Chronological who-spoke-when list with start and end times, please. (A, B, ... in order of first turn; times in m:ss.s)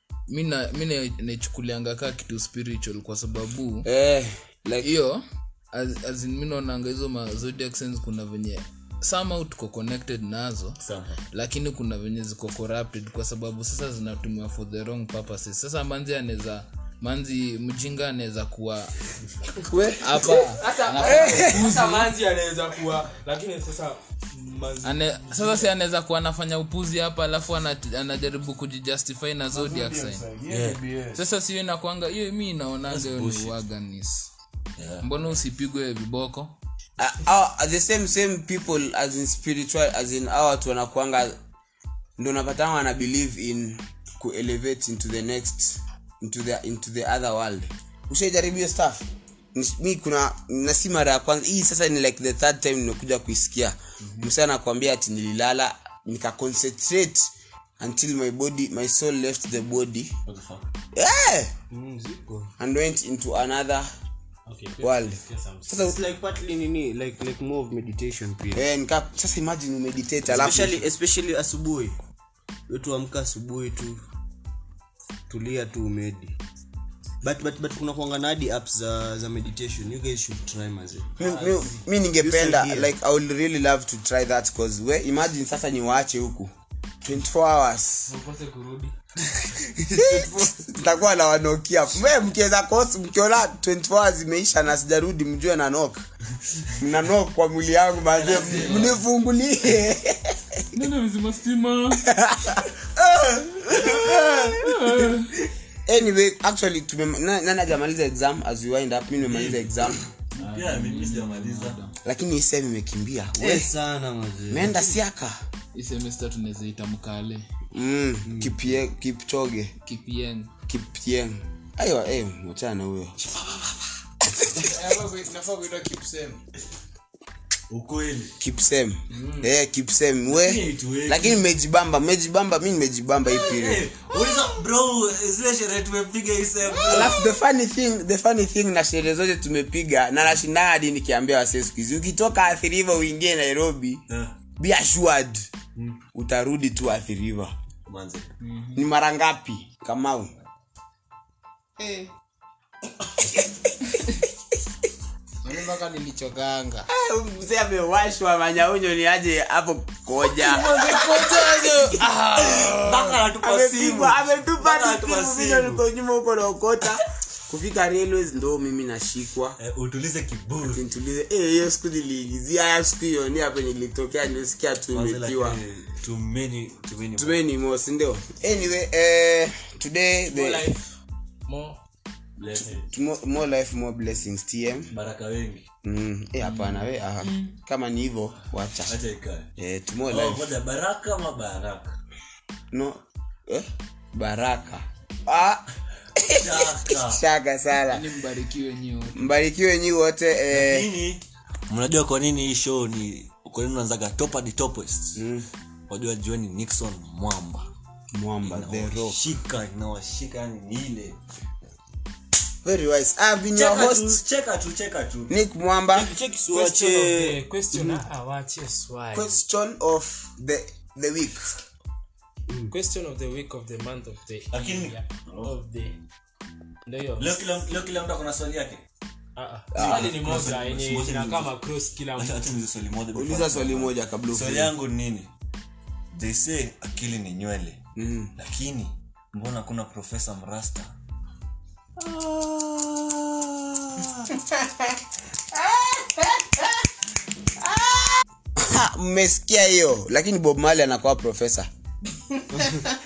0:00.3-0:03.9 A
0:03.8-0:04.9 B
0:04.8-0:10.8 A
0:10.8-0:11.2 C
0:11.3-0:18.9 A
0:19.6-0:20.3 B
0:20.0-0:22.1 A
0:20.6-0:25.7 D
0:21.2-0:21.6 B
0:24.8-0:30.2 A
0:29.8-0:31.2 E
0:30.4-0:30.8 C
0:31.1-0:34.3 A
0:32.9-0:33.6 C
0:34.8-0:35.1 C
0:35.0-0:36.5 A
0:37.0-0:41.4 B
0:42.2-1:00.1 B
1:00.2-1:00.6 C
1:00.9-1:01.5 B
1:01.7-1:02.5 E
1:02.6-1:03.9 B
1:04.4-1:05.9 D
1:04.8-1:06.0 B
1:05.7-1:08.6 E
1:08.5-1:10.8 B
1:10.2-1:11.9 E
1:12.7-1:14.0 E
1:15.3-1:16.3 E
1:17.2-1:21.2 E
1:21.2-1:21.9 D
1:21.2-1:26.5 B
1:22.1-1:22.9 E
1:27.0-1:28.1 B
1:28.1-1:28.9 D
1:29.9-1:30.4 E
1:29.9-1:36.0 B
1:36.7-1:40.7 B
1:38.1-1:39.0 C
1:40.8-1:42.0 A
1:42.0-1:45.1 B
1:43.8-1:44.1 E
1:44.6-1:45.3 A
1:45.8-1:50.1 B
1:49.2-1:49.6 C
1:50.4-1:51.9 A
1:50.4-1:51.8 C
1:52.0-1:53.7 B
1:53.4-1:54.9 E
1:54.5-1:55.4 B
1:55.7-1:57.4 A
1:57.7-1:59.7 B
1:58.3-1:58.5 E
1:59.8-2:00.5 A
2:00.7-2:03.4 B
2:04.2-2:04.7 B
2:04.5-2:06.4 F
2:07.7-2:08.3 C
2:08.4-2:13.9 B
2:09.1-2:09.5 F
2:10.3-2:11.5 C
2:13.3-2:17.2 C
2:16.8-2:24.0 B
2:24.1-2:24.3 C
2:24.6-2:25.5 B
2:26.1-2:27.5 B
2:27.9-2:28.3 C
2:28.7-2:30.3 B
2:31.8-2:32.1 F
2:33.2-2:33.4 B
2:35.4-2:36.9 F
2:36.9-2:41.7 B
2:40.4-2:43.1 F
2:42.4-2:45.8 C
2:43.4-2:49.6 B
2:49.6-2:50.8 C
2:50.7-2:55.6 B
2:54.9-2:57.4 C
2:57.2-3:00.8 B
3:00.3-3:00.8 D
3:01.5-3:01.8 D
3:02.4-3:02.9 C
3:02.9-3:04.9 B
3:04.9-3:05.6 C
3:05.8-3:08.9 B
3:06.4-3:07.5 A
3:08.9-3:09.5 C
3:09.6-3:10.5 B
3:10.1-3:11.9 C
3:12.7-3:18.0 B
3:16.3-3:17.2 C
3:17.9-3:19.3 A
3:19.2-3:20.9 B
3:20.5-3:25.2 C
3:25.2-3:25.4 B
3:25.9-3:27.7 C
3:28.1-3:29.2 B
3:28.4-3:31.2 C
3:32.6-3:34.2 B
3:33.5-3:35.3 C
3:35.3-3:36.1 B
3:35.9-3:38.0 E
3:36.5-3:39.4 D
3:39.1-3:41.5 B
3:42.7-3:46.0 D
3:44.5-3:45.5 C
3:46.8-3:47.4 D
3:47.2-3:48.8 C
3:49.4-3:52.5 D
3:49.7-3:50.4 B
3:49.8-3:51.5 C
3:52.2-3:55.3 C
3:53.1-3:54.7 B
3:56.1-3:57.8 C
3:58.0-3:58.3 B
3:58.4-4:00.9 C
4:02.0-4:04.3 C
4:08.6-4:11.7 B